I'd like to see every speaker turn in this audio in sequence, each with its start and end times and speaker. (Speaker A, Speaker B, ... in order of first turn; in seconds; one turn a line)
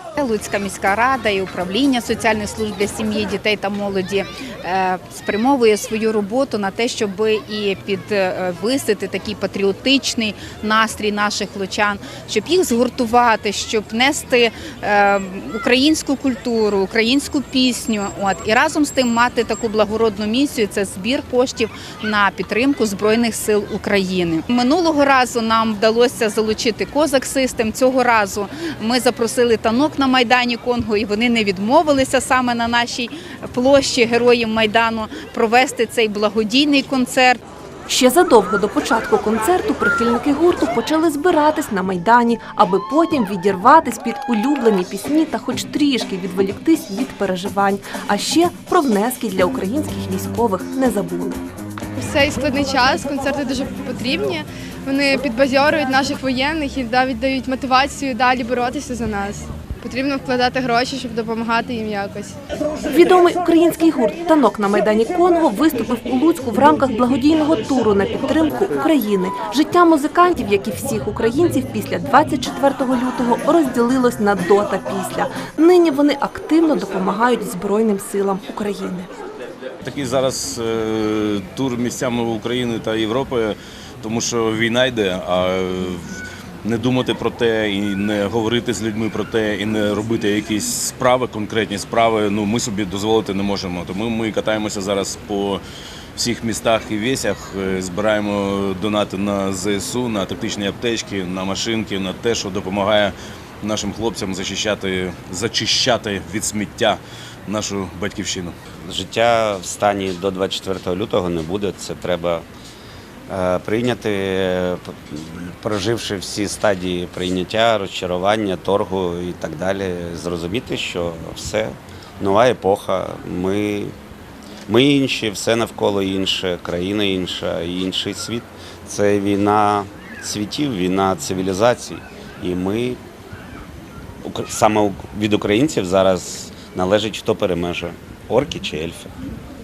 Speaker A: 0.2-37.4
Speaker B: 37.9-51.4
Speaker C: 52.0-62.4
Speaker B: 62.9-79.1
Speaker D: 79.8-95.6
Speaker D: 96.2-108.5
Speaker E: 108.8-112.5
Speaker E: 113.3-124.0
Speaker E: 124.7-133.0
Speaker E: 134.2-139.1